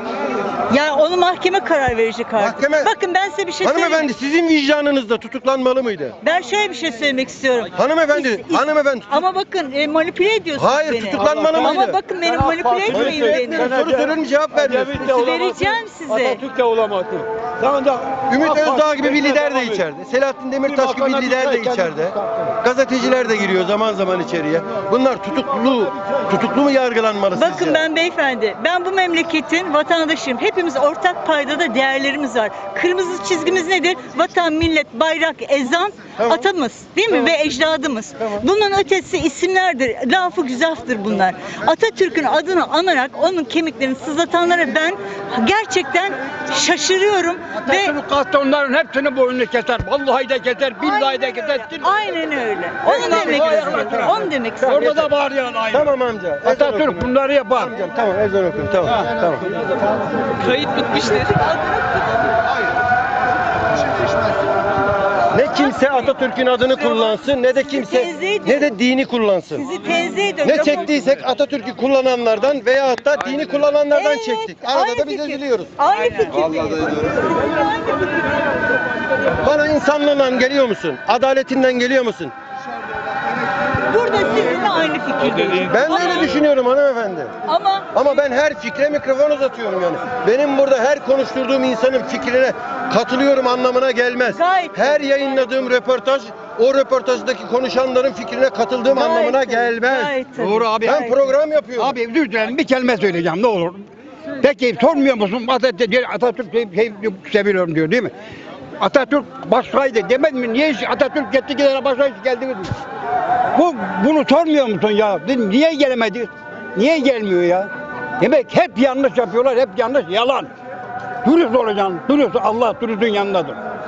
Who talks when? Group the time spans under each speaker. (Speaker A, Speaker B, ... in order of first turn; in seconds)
Speaker A: 0.7-4.1, 6.2-13.8, 15.0-16.4, 27.3-48.0, 50.8-55.1, 60.6-62.0, 67.0-68.7, 69.5-71.0, 73.9-78.2, 83.9-86.4, 87.5-87.9, 94.3-94.9, 98.9-101.2
Speaker B: 2.4-2.9, 3.6-6.2, 7.8-9.1, 10.6-12.0, 12.9-15.1, 18.3-27.8, 36.2-36.5, 52.9-54.0, 55.7-59.4, 65.3-69.7, 70.4-75.7, 79.4-82.3, 85.5-87.3, 87.9-101.9
Speaker C: 11.3-19.8, 20.6-22.1
Speaker D: 47.6-51.9, 52.9-55.8, 56.4-57.7, 101.8-103.8, 104.4-108.1, 108.8-112.7, 113.5-120.5, 121.2-123.6